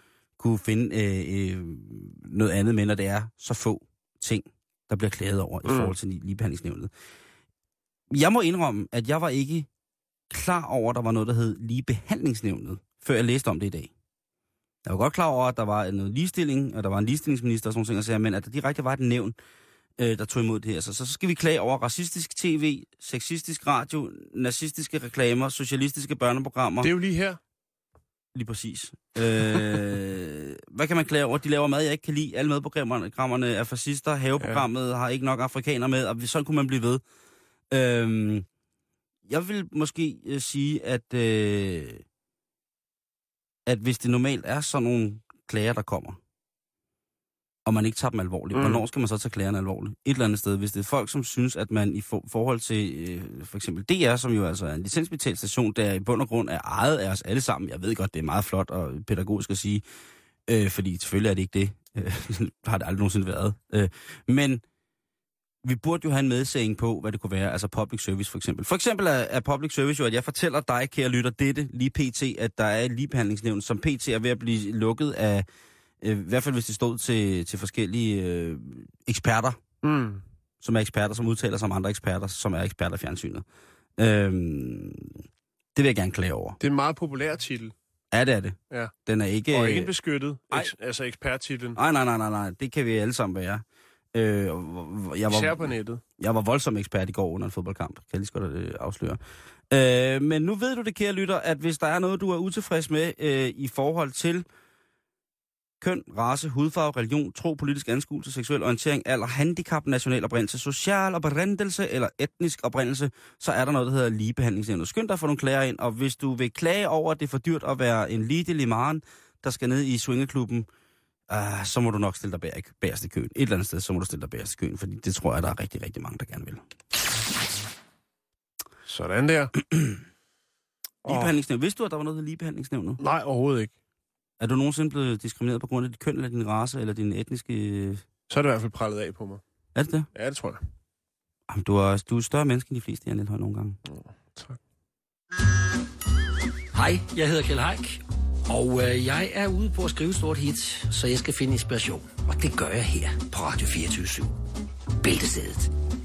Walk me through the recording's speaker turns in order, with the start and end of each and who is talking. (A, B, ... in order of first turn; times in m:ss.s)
0:00.4-0:06.9 A
0:05.6-0:06.0 B
0:08.1-0:09.7 A
0:10.3-0:13.9 A
0:14.9-0:19.4 A
0:20.0-0:26.9 A
0:26.8-0:27.4 B
0:28.3-0:37.0 A
0:34.4-0:34.7 B
0:37.7-0:38.5 A
0:39.3-0:42.0 A
0:43.7-0:46.2 A
0:47.7-0:59.8 A
0:48.5-0:48.8 B
1:00.5-1:04.6 A
1:05.6-1:15.5 A
1:16.0-1:19.6 A
1:19.8-1:20.2 B
1:20.6-1:23.4 A
1:24.0-1:25.2 A
1:25.8-1:26.6 A
1:26.6-1:27.7 B
1:28.1-1:29.9 A
1:29.5-1:31.8 B
1:31.8-1:44.4 A
1:35.3-1:36.0 B
1:45.8-2:00.7 A
2:01.3-2:06.6 A
2:08.9-2:09.5 B
2:11.0-2:11.3 B
2:11.0-2:13.0 A
2:13.0-2:13.7 B
2:14.4-2:18.0 A
2:18.3-2:19.4 B
2:19.8-2:20.1 A
2:20.1-2:20.6 B
2:21.5-2:23.8 A
2:23.8-2:24.6 B
2:26.7-2:34.4 C
2:35.0-2:35.7 C